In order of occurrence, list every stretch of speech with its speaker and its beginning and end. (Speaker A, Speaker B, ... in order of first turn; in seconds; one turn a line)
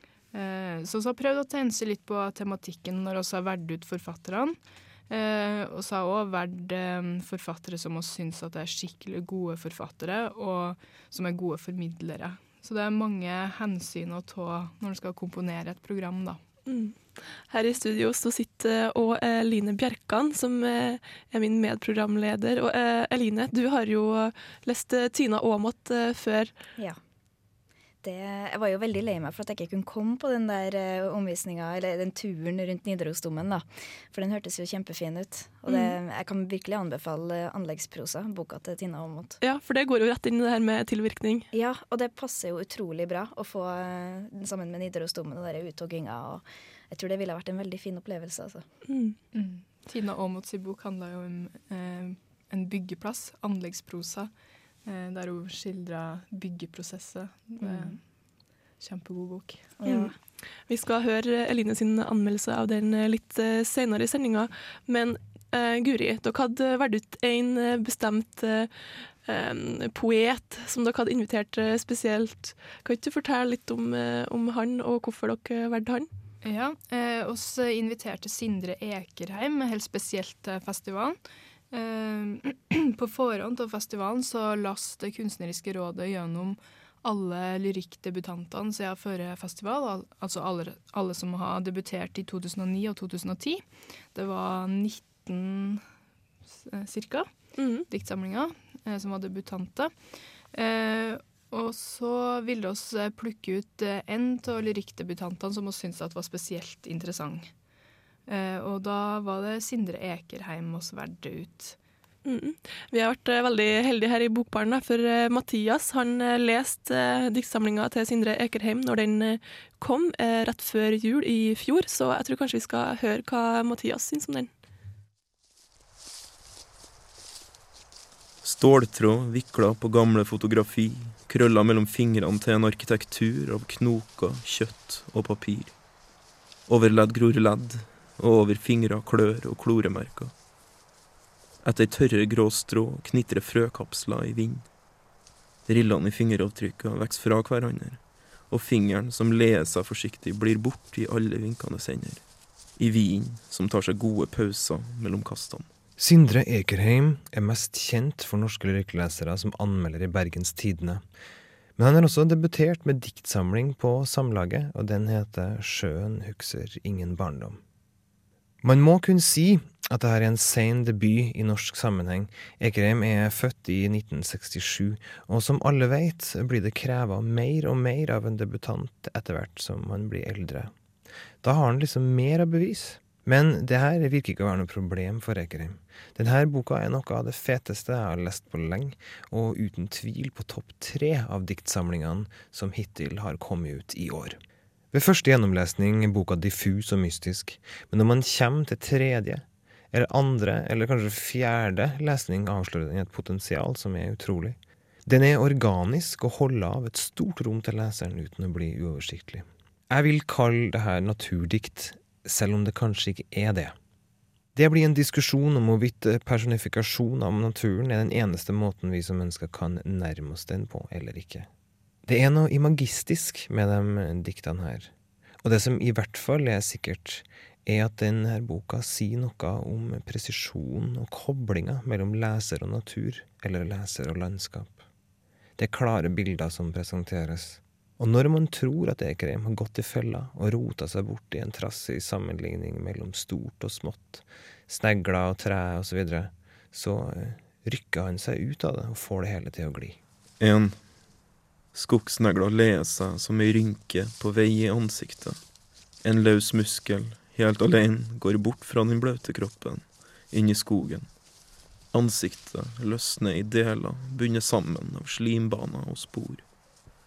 Speaker A: 0.3-16.4
Speaker B: 16.7-26.5
Speaker C: 28.0-39.4
Speaker B: 35.7-36.0
Speaker B: 39.4-41.5
Speaker C: 41.5-48.6
Speaker B: 48.9-49.2
Speaker A: 49.3-54.3
Speaker A: 54.8-58.0
Speaker C: 57.6-58.0
Speaker A: 58.8-59.8
Speaker C: 59.8-60.1
Speaker B: 59.9-60.1
Speaker B: 60.7-68.7
Speaker B: 69.2-76.1
Speaker A: 76.4-81.2
Speaker A: 81.7-95.8
Speaker A: 96.6-100.0
Speaker B: 97.6-97.9
Speaker A: 100.5-107.5
Speaker A: 108.3-111.8
Speaker B: 112.2-124.5
Speaker D: 128.4-135.8
Speaker D: 136.7-140.3
Speaker D: 141.6-144.7
Speaker D: 145.7-152.2
Speaker D: 152.8-155.7
Speaker E: 156.0-161.0
Speaker E: 161.8-167.6
Speaker E: 168.6-180.7
Speaker E: 181.4-194.4
Speaker E: 194.9-213.8
Speaker E: 214.5-221.5
Speaker E: 222.1-234.8
Speaker E: 235.6-250.0
Speaker D: 250.4-250.9
Speaker D: 251.7-255.4
Speaker D: 256.0-261.1
Speaker D: 261.9-266.4